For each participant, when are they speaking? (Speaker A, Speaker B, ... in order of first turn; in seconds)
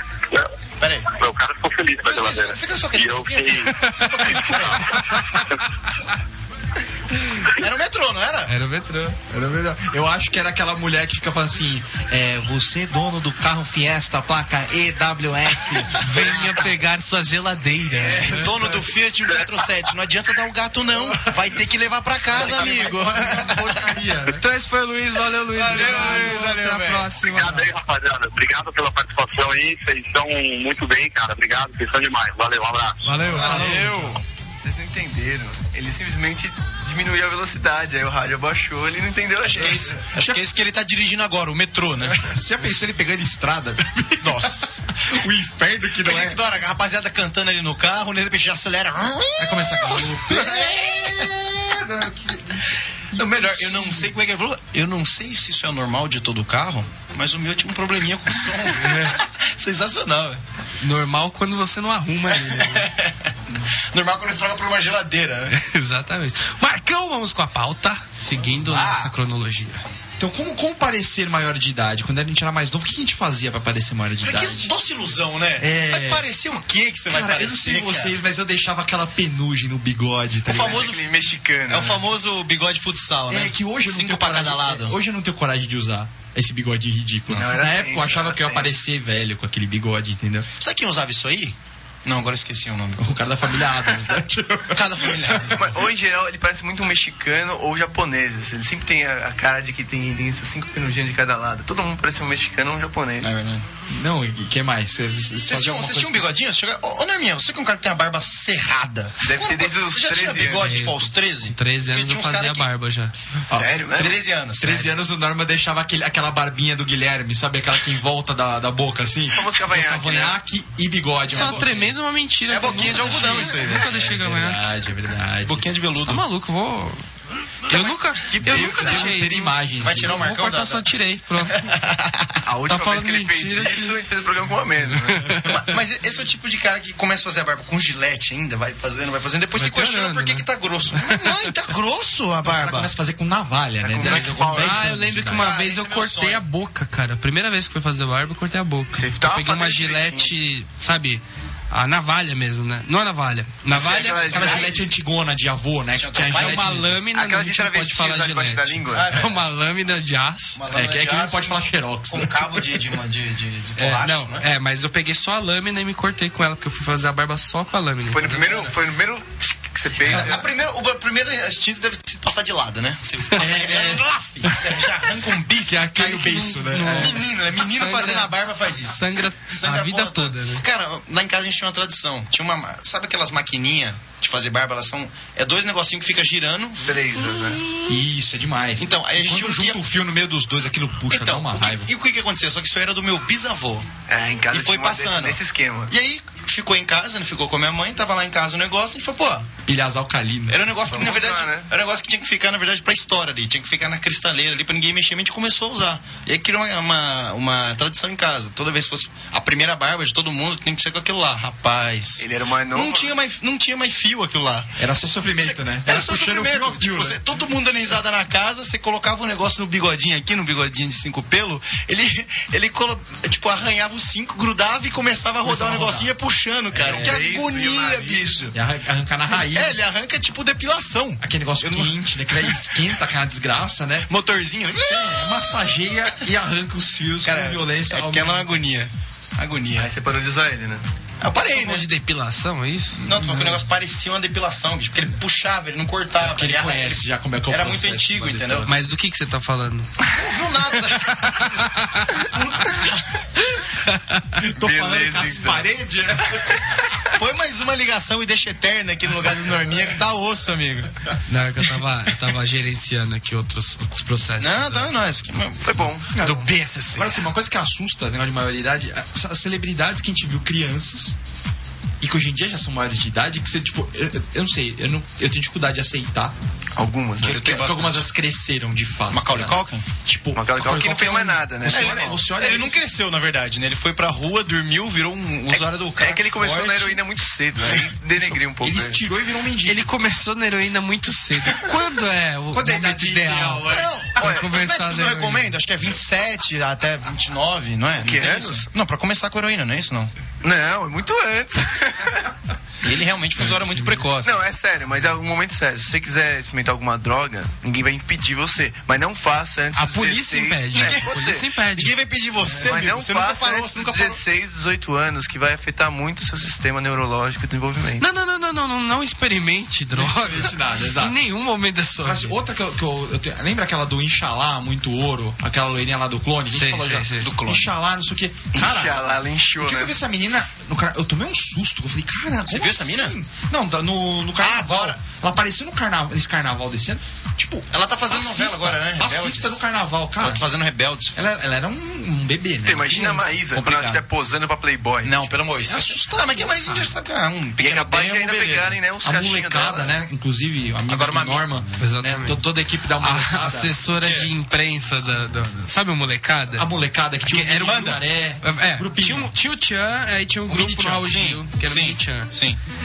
Speaker A: 0.8-1.1, 2.0-5.1, 7.6-8.5, 18.0-23.7, 25.6-27.2, 33.4-34.0, 39.4-42.3, 44.2-44.9, 46.0-51.4, 53.1-60.4, 62.3-65.5, 68.3-69.1, 74.2-78.2, 80.5-81.0, 81.7-85.0, 90.6-93.1, 94.7-95.8, 103.2-103.7, 105.5-112.7, 114.0-114.9, 121.4-121.6, 122.5-123.9, 125.5-126.2, 127.7-129.1, 129.7-130.9, 131.5-132.3, 135.5-142.9, 145.2-146.4, 153.8-154.7, 155.9-156.8, 158.9-159.5, 160.6-164.4, 170.1-187.0, 188.8-189.8, 191.1-193.9, 194.5-199.5, 200.5-214.7, 215.4-228.6, 229.5-232.6, 234.1-235.6, 237.2-239.9, 241.2-241.9, 243.1-248.7, 250.0-251.5, 252.7-253.0, 257.2-260.9, 264.4-265.6, 277.3-277.9, 279.1-279.9, 281.7-287.0, 287.6-288.4, 293.7-300.1, 302.8-304.4, 310.8-311.1, 311.7-314.2, 327.1-327.7, 332.5-333.1, 334.4-335.0, 337.7-339.6, 340.2-341.2, 343.5-344.0, 345.0-348.8, 350.9-351.4, 354.0-354.3, 357.6-358.0, 361.0-362.6
Speaker B: 1.1-3.7, 27.2-33.1
Speaker C: 3.8-4.4, 8.5-9.2, 16.0-18.5, 24.4-27.7, 33.0-34.1, 58.8-59.1, 60.8-62.9, 65.5-69.8, 110.6-113.1, 121.3-124.7, 126.0-127.0, 127.7-131.7, 132.7-134.0, 135.1-135.7, 139.6-140.4, 141.0-141.3, 144.4-154.6, 156.3-160.6, 163.8-168.5, 175.9-180.6, 241.4-243.0, 248.7-249.9, 251.4-252.3, 253.9-254.2, 261.3-264.9, 266.2-267.3, 289.6-295.6, 303.7-304.0, 309.8-311.9, 318.0-322.4, 326.5-327.3, 351.8-352.4, 353.0-356.7, 357.2-362.3
Speaker D: 9.3-16.3, 18.0-18.7, 20.9-21.4, 22.3-24.4, 33.2-34.2, 39.6-40.4, 42.1-46.4, 49.5-54.2, 70.2-74.7, 75.6-76.3, 77.1-80.9, 83.3-90.5, 93.0-95.5, 103.9-106.3, 113.5-113.9, 114.6-121.9, 122.8-125.7, 128.4-130.2, 142.4-145.6, 154.3-157.0, 160.7-162.8, 170.1-170.3, 173.4-174.6, 175.7-177.2, 187.9-191.9, 199.7-200.6, 214.8-217.2, 225.4-226.1, 226.7-227.2, 228.5-229.8, 231.2-234.1, 234.8-238.6, 243.0-243.6, 246.2-248.9, 252.3-252.8, 254.4-256.7, 266.1-271.2, 272.0-276.3, 277.2-282.9, 288.6-289.9, 292.5-294.1, 319.9-321.2, 322.0-329.1, 329.6-340.4, 341.1-343.3, 345.6-346.9, 349.0-353.8, 356.5-359.3, 360.5-361.2
Speaker E: 33.5-34.1, 34.6-39.9, 80.5-82.0, 87.3-88.8, 95.5-103.3, 109.2-110.7, 113.5-114.2, 119.3-120.4, 128.5-128.9, 132.4-135.3, 143.8-144.9, 148.9-150.3, 153.7-154.8, 157.1-159.1, 168.1-170.5, 186.8-187.6, 194.1-195.9, 200.9-201.7, 212.2-213.2, 226.8-228.4, 239.8-240.8, 254.6-255.7, 256.3-256.8, 265.6-266.1, 276.8-278.0, 280.4-282.2, 285.5-289.0, 297.9-298.7, 300.4-302.3, 304.2-311.5, 312.4-318.0, 328.5-329.9, 342.6-345.3, 347.6-349.9